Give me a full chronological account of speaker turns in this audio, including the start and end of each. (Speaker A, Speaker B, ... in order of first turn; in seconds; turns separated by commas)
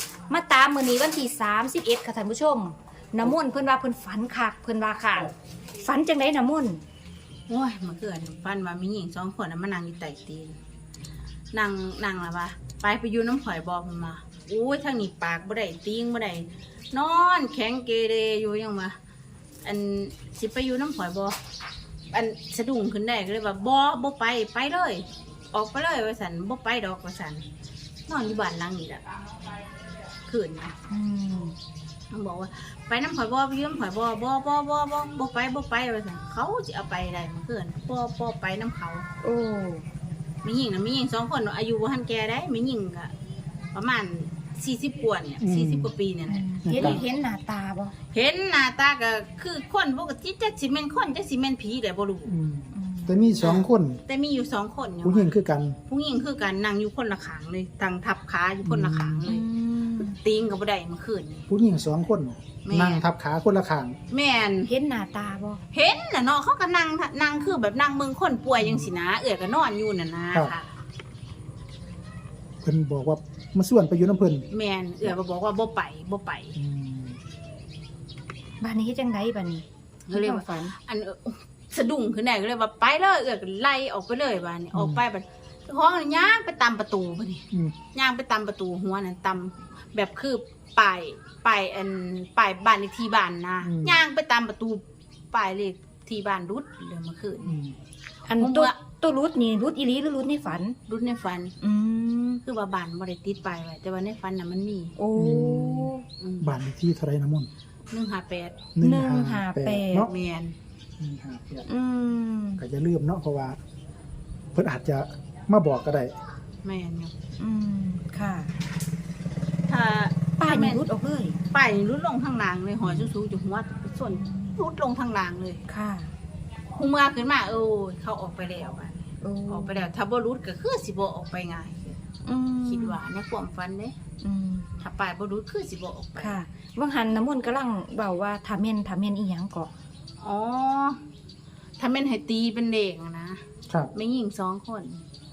Speaker A: 0.3-6.8, Speaker B: 7.5-10.6, Speaker B: 11.5-19.0, Speaker B: 19.6-21.4, Speaker B: 22.1-27.5, Speaker B: 28.1-29.3, Speaker B: 30.3-30.8, Speaker A: 30.9-31.6, Speaker B: 32.1-39.0, Speaker A: 39.2-39.9, Speaker B: 40.4-43.1, Speaker B: 43.7-47.0, Speaker C: 45.4-45.9, Speaker A: 46.3-48.0, Speaker C: 46.6-47.0, Speaker B: 48.1-52.3, Speaker C: 52.3-54.0, Speaker A: 52.7-53.2, Speaker B: 53.4-55.4, Speaker C: 55.0-55.8, Speaker B: 55.9-59.5, Speaker C: 58.6-59.3, Speaker A: 59.3-60.2, Speaker B: 60.0-61.5, Speaker C: 61.5-64.0, Speaker B: 62.6-63.1, Speaker B: 64.1-64.7, Speaker A: 64.7-65.6, Speaker B: 65.7-70.7, Speaker C: 72.6-74.5, Speaker B: 74.5-76.6, Speaker C: 76.5-77.2, Speaker A: 78.6-80.7, Speaker B: 80.1-97.6, Speaker C: 84.7-85.0, Speaker C: 93.6-94.0, Speaker C: 97.4-97.8, Speaker A: 98.3-100.8, Speaker B: 98.4-98.7, Speaker B: 100.9-101.5, Speaker A: 101.6-102.4, Speaker B: 102.5-105.0, Speaker A: 105.0-106.0, Speaker C: 105.2-107.5, Speaker B: 106.2-106.5, Speaker B: 107.9-108.7, Speaker C: 108.8-110.1, Speaker A: 108.8-110.1, Speaker B: 110.1-110.5, Speaker C: 111.0-111.7, Speaker A: 111.7-112.6, Speaker C: 112.6-113.6, Speaker C: 114.5-116.1, Speaker B: 116.6-117.1, Speaker A: 117.4-118.5, Speaker B: 119.7-120.9, Speaker A: 120.4-121.4, Speaker B: 121.5-125.6, Speaker A: 124.1-124.6, Speaker A: 125.7-126.1, Speaker B: 126.8-132.1, Speaker A: 129.2-129.9, Speaker A: 132.2-133.0, Speaker B: 132.7-134.0, Speaker A: 134.2-134.7, Speaker B: 134.8-136.4, Speaker A: 136.2-139.7, Speaker B: 140.2-141.0, Speaker B: 141.8-143.4, Speaker B: 143.9-145.0